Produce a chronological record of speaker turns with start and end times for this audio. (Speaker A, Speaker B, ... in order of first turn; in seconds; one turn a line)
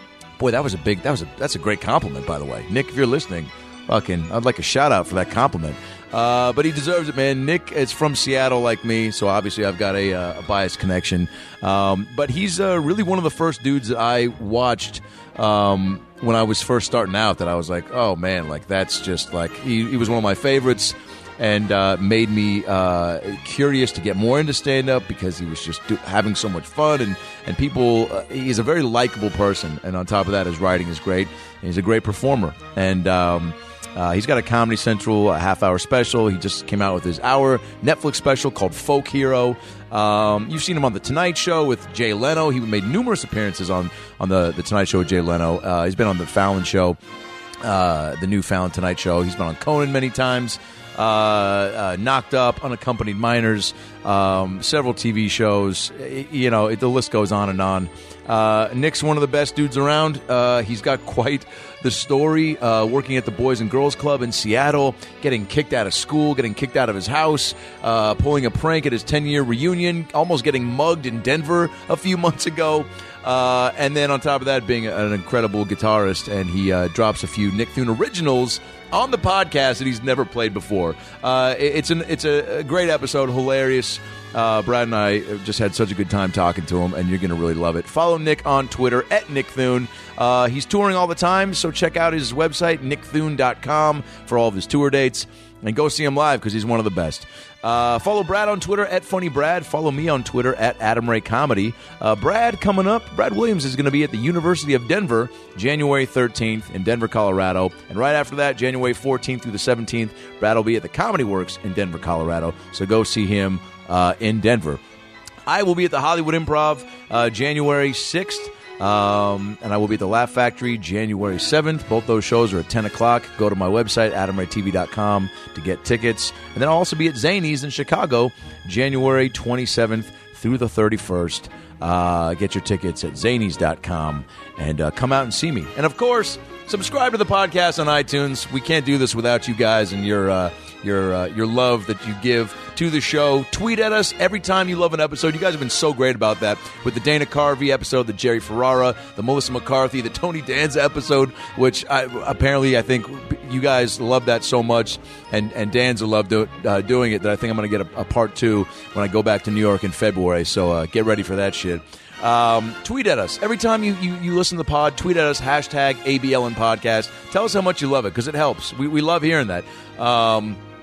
Speaker A: 0.4-47.0
Speaker A: 47.6-114.8
Speaker A: 115.5-170.6